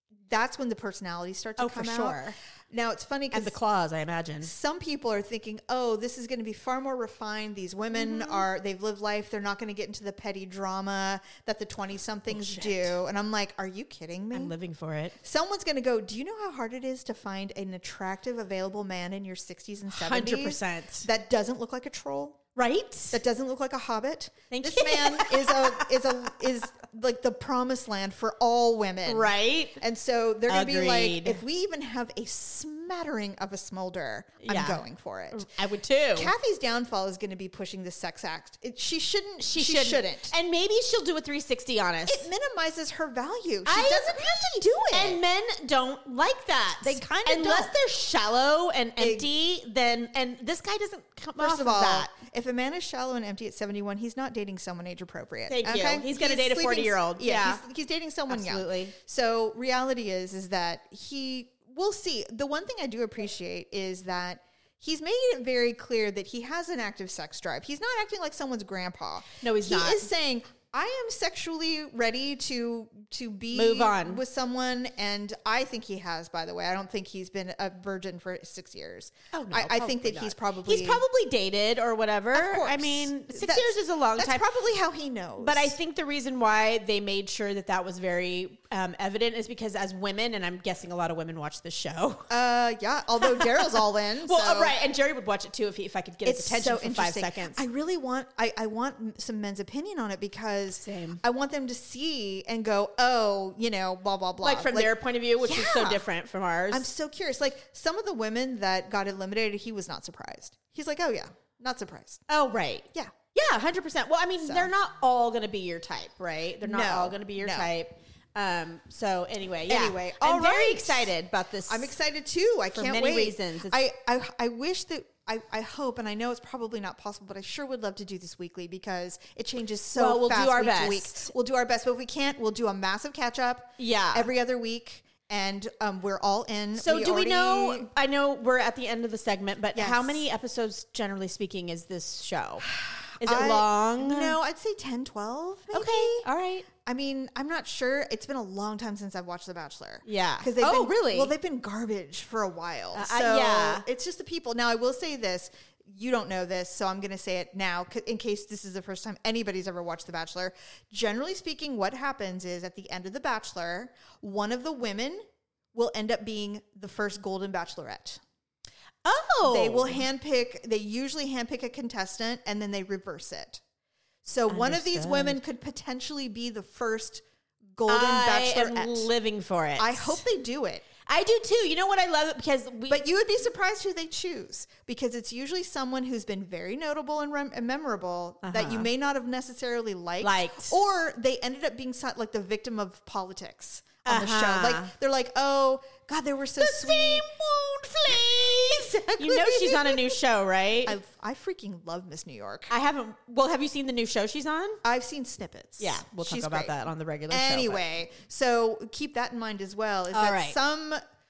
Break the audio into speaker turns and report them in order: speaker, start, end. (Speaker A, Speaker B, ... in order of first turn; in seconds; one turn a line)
Speaker A: 0.3-3.6
Speaker B: 1.6-2.4
Speaker B: 3.3-4.5
Speaker A: 4.4-14.5
Speaker B: 7.9-8.4
Speaker B: 12.3-12.9
Speaker B: 14.3-15.2
Speaker A: 15.2-22.4
Speaker B: 19.9-21.1
Speaker B: 22.5-23.2
Speaker A: 23.1-35.5
Speaker B: 24.5-26.1
Speaker B: 29.1-29.8
Speaker B: 30.5-31.4
Speaker B: 34.4-36.3
Speaker A: 36.1-40.3
Speaker B: 39.4-42.3
Speaker A: 42.1-45.2
Speaker B: 43.6-52.1
Speaker A: 46.8-47.7
Speaker A: 49.0-49.3
Speaker A: 51.4-81.0
Speaker B: 55.5-57.6
Speaker B: 58.3-58.9
Speaker B: 69.4-70.1
Speaker B: 73.5-74.2
Speaker B: 79.3-84.5
Speaker A: 82.3-85.8
Speaker B: 85.4-92.3
Speaker A: 92.3-94.8
Speaker B: 93.2-97.6
Speaker A: 96.2-106.0
Speaker B: 100.8-101.2
Speaker B: 104.4-106.8
Speaker A: 106.7-112.2
Speaker B: 112.3-121.9
Speaker A: 114.4-114.7
Speaker A: 116.6-117.7
Speaker A: 119.7-121.1
Speaker A: 121.7-137.9
Speaker B: 122.7-123.8
Speaker B: 129.9-131.3
Speaker B: 133.8-134.3
Speaker B: 136.8-142.7
Speaker A: 139.7-140.2
Speaker A: 142.6-168.2
Speaker B: 143.2-144.4
Speaker B: 145.7-146.7
Speaker B: 150.0-151.3
Speaker B: 152.9-153.8
Speaker B: 169.0-170.0
Speaker A: 169.4-173.6
Speaker A: 174.2-177.2
Speaker B: 174.5-175.4
Speaker A: 177.7-179.1
Speaker B: 177.9-180.2
Speaker A: 179.8-180.8
Speaker B: 181.1-183.0
Speaker A: 182.9-197.3
Speaker B: 188.4-188.9
Speaker B: 190.2-190.8
Speaker B: 194.0-194.9
Speaker B: 196.6-201.0
Speaker A: 198.0-200.2
Speaker A: 200.8-202.7
Speaker B: 202.7-204.8
Speaker A: 204.8-211.0
Speaker B: 205.8-207.9
Speaker B: 210.1-210.6